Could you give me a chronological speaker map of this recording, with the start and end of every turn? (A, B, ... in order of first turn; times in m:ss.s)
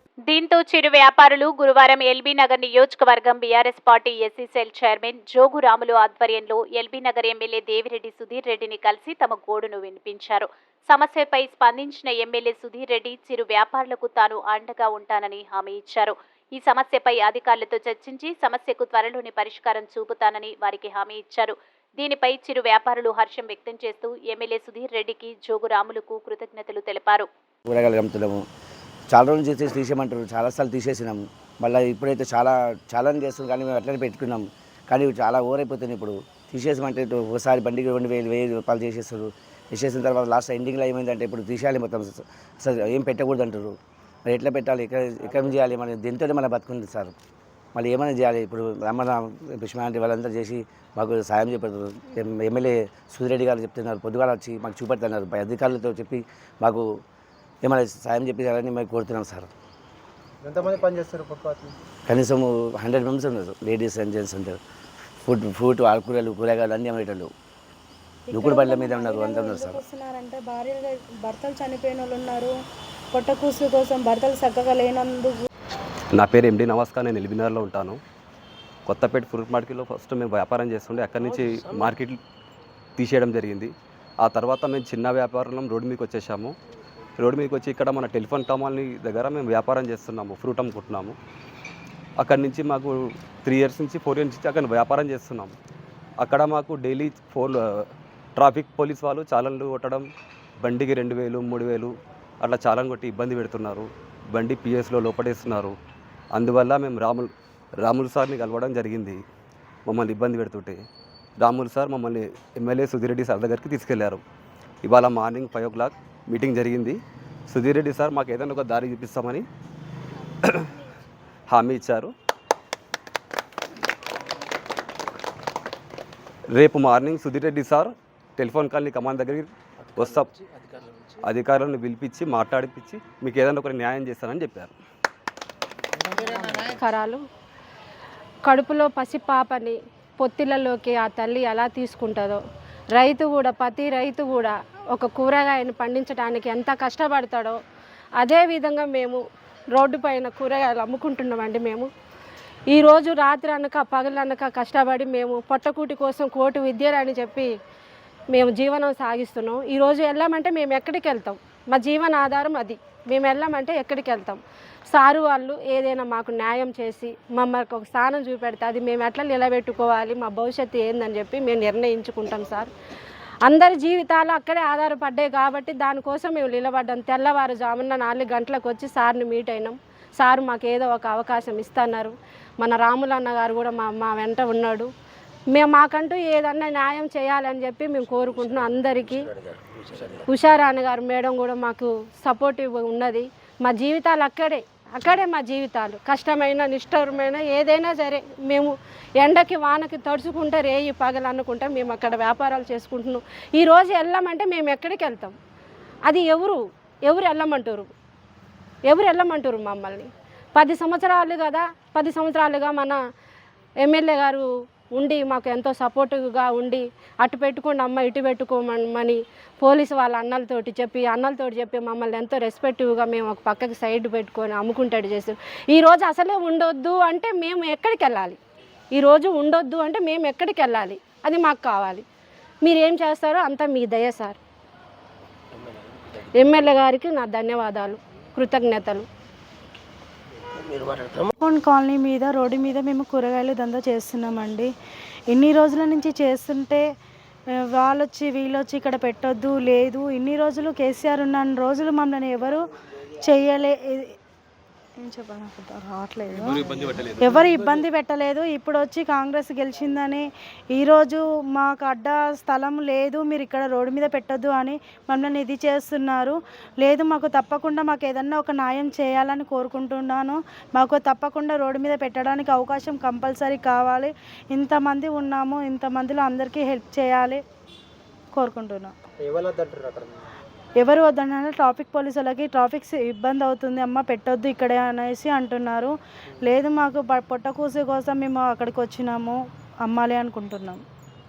0:00.3-0:27.3 A
0:27.7-0:28.4 B
0:29.1-0:43.7 B
0:44.3-0:47.1 B
0:47.7-0:56.8 B
0:57.6-0:59.5 B
1:00.4-1:01.7 C
1:02.1-1:04.6 B
1:05.2-1:07.3 B
1:08.3-1:12.5 D
1:08.3-1:09.8 B
1:13.1-1:15.4 D
1:16.1-1:18.0 E
1:18.8-1:22.2 E
1:23.0-1:26.5 E
1:27.2-1:31.2 E
1:32.2-1:35.5 E
1:36.2-1:37.8 E
1:38.4-1:40.0 E
1:40.6-1:45.7 E
1:46.3-1:47.3 E
1:47.8-1:49.2 E
1:49.8-1:50.8 E
1:51.4-1:54.2 E
1:54.8-1:57.0 E
1:57.5-1:59.4 E
2:00.4-2:00.7 E
2:01.5-2:02.1 E
2:06.5-2:10.3 E
2:11.2-2:14.7 E
2:16.6-2:17.2 F
2:18.4-2:22.4 F
2:22.9-2:27.6 F
2:28.2-2:29.2 F
2:29.7-2:31.9 F
2:32.7-2:37.5 F
2:38.3-2:44.4 F
2:44.9-2:52.7 F
2:53.4-3:04.9 F
3:05.5-3:09.3 F
3:10.3-3:25.3 F
3:26.1-3:27.9 F
3:28.9-3:33.0 F
3:33.8-3:48.4 F
3:48.9-3:52.0 F
3:52.6-3:54.4 F
3:56.4-3:59.0 F
4:01.4-4:04.7 D
4:05.3-4:06.8 D
4:07.5-4:12.6 D
4:13.2-4:14.1 D
4:15.0-4:37.4 D
4:16.5-4:17.4 E
4:38.3-4:38.9 D
4:39.2-4:40.3 C
4:40.8-4:50.8 D